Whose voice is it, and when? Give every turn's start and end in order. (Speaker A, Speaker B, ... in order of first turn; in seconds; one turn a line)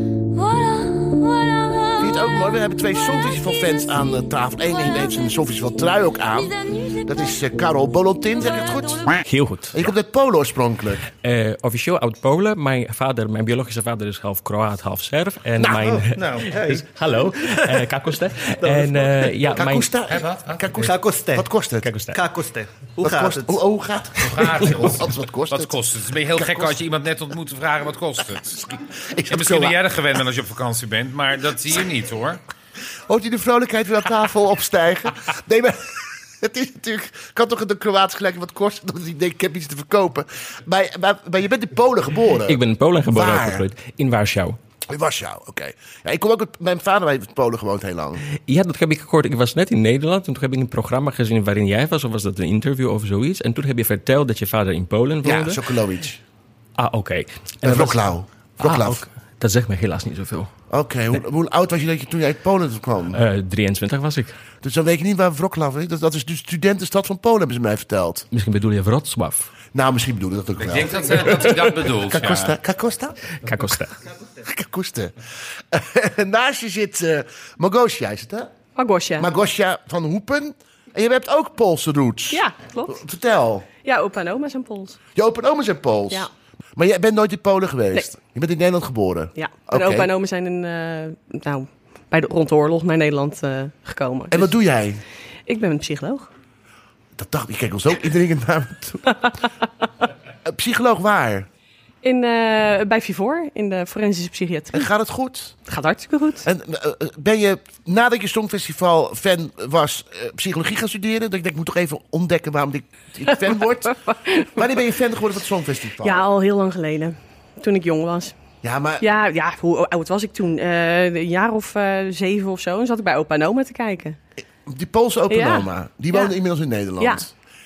Speaker A: 0.3-9.2
Speaker B: 2.0-6.5
Speaker B: 7.0-9.1
Speaker C: 9.2-9.8
Speaker B: 9.7-11.0
Speaker C: 11.2-19.9
Speaker B: 15.6-16.0
Speaker D: 15.6-19.5
Speaker B: 19.5-21.9
Speaker E: 20.1-20.7
Speaker D: 20.8-21.5
Speaker C: 21.8-22.2
Speaker D: 22.1-23.6
Speaker B: 23.0-25.8
Speaker E: 24.2-28.7
Speaker B: 26.3-26.8
Speaker B: 28.9-29.8
Speaker E: 29.3-32.4
Speaker B: 33.1-43.6
Speaker C: 42.5-44.6
Speaker B: 44.9-48.2
Speaker C: 48.5-55.6
Speaker B: 55.2-56.2
Speaker C: 56.8-58.0
Speaker B: 57.6-59.0
Speaker C: 58.6-60.5
Speaker B: 60.7-63.2
Speaker C: 63.1-64.3
Speaker B: 64.6-68.2
Speaker C: 68.3-69.5
Speaker B: 69.7-73.2
Speaker E: 70.6-72.5
Speaker C: 73.4-73.9
Speaker B: 74.4-75.1
Speaker B: 75.7-78.5
Speaker F: 78.8-79.3
Speaker B: 79.2-83.7
Speaker F: 82.3-83.0
Speaker F: 83.8-85.0
Speaker B: 85.1-90.1
Speaker F: 89.3-94.5
Speaker B: 94.3-95.0
Speaker F: 95.5-96.3
Speaker B: 97.2-99.2
Speaker B: 100.4-101.5
Speaker F: 102.0-104.9
Speaker B: 104.7-105.5
Speaker F: 105.7-106.5
Speaker B: 106.4-114.0
Speaker F: 113.9-114.6
Speaker B: 114.5-116.2
Speaker F: 116.0-118.3
Speaker B: 118.6-119.0
Speaker F: 119.0-124.2
Speaker B: 124.7-127.3
Speaker F: 125.3-126.3
Speaker F: 127.0-127.2